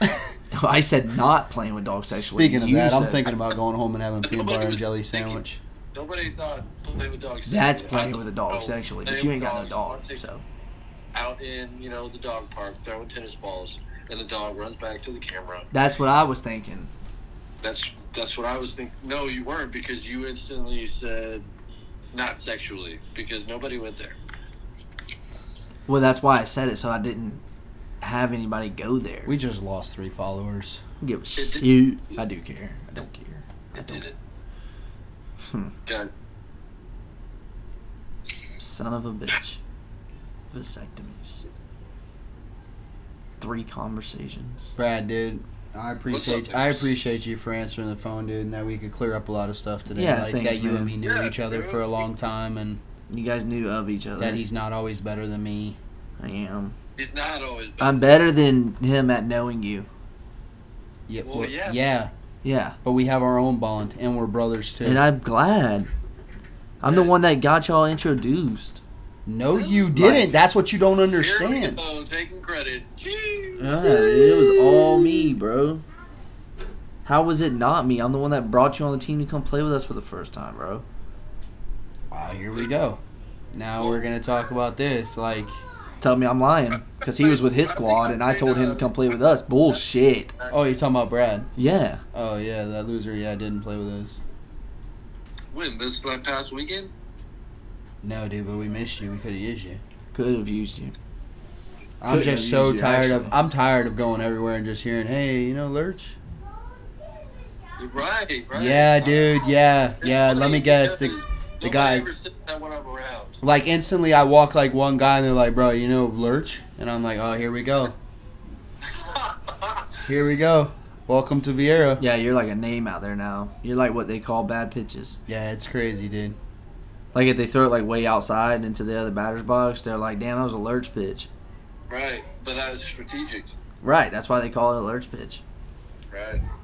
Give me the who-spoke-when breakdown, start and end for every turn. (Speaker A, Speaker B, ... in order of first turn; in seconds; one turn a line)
Speaker A: 0.5-3.3
Speaker B: 2.2-5.6
Speaker C: 4.2-5.4
Speaker C: 5.9-10.2
Speaker A: 7.5-10.4
Speaker C: 11.1-15.7
Speaker A: 15.7-16.9
Speaker C: 17.6-21.5
Speaker C: 22.1-24.2
Speaker A: 25.9-27.4
Speaker A: 28.0-29.3
Speaker B: 29.3-30.8
Speaker A: 31.0-34.1
Speaker C: 31.4-31.7
Speaker C: 33.7-34.2
Speaker A: 35.5-35.7
Speaker A: 38.6-39.6
Speaker A: 40.5-41.5
Speaker A: 43.4-44.7
Speaker B: 44.8-52.8
Speaker C: 46.1-47.0
Speaker A: 49.9-51.0
Speaker C: 51.0-52.0
Speaker A: 53.1-54.4
Speaker B: 54.2-55.8
Speaker A: 56.2-56.8
Speaker C: 57.0-58.0
Speaker A: 57.8-59.9
Speaker B: 61.1-62.1
Speaker C: 61.2-61.8
Speaker A: 62.4-62.8
Speaker B: 62.8-65.0
Speaker A: 64.8-65.9
Speaker A: 66.8-68.8
Speaker C: 66.8-67.1
Speaker B: 69.3-71.8
Speaker C: 69.5-69.9
Speaker A: 69.9-70.3
Speaker C: 71.2-75.1
Speaker A: 73.6-75.8
Speaker A: 77.0-80.8
Speaker B: 82.1-83.0
Speaker B: 83.5-85.6
Speaker C: 83.8-84.1
Speaker A: 86.0-90.3
Speaker C: 87.0-89.1
Speaker C: 90.4-90.6
Speaker B: 90.5-91.5
Speaker A: 91.6-92.0
Speaker B: 92.1-94.2
Speaker C: 95.5-96.9
Speaker B: 98.0-99.8
Speaker A: 100.1-101.0
Speaker B: 102.0-106.2
Speaker A: 102.1-103.3
Speaker C: 107.8-109.3
Speaker B: 108.5-112.1
Speaker C: 110.0-113.4
Speaker B: 113.4-118.0
Speaker C: 118.9-119.9
Speaker B: 120.0-122.0
Speaker A: 122.0-125.2
Speaker B: 125.3-126.4
Speaker A: 127.1-131.3
Speaker C: 131.9-133.5
Speaker A: 133.8-135.4
Speaker C: 136.1-136.4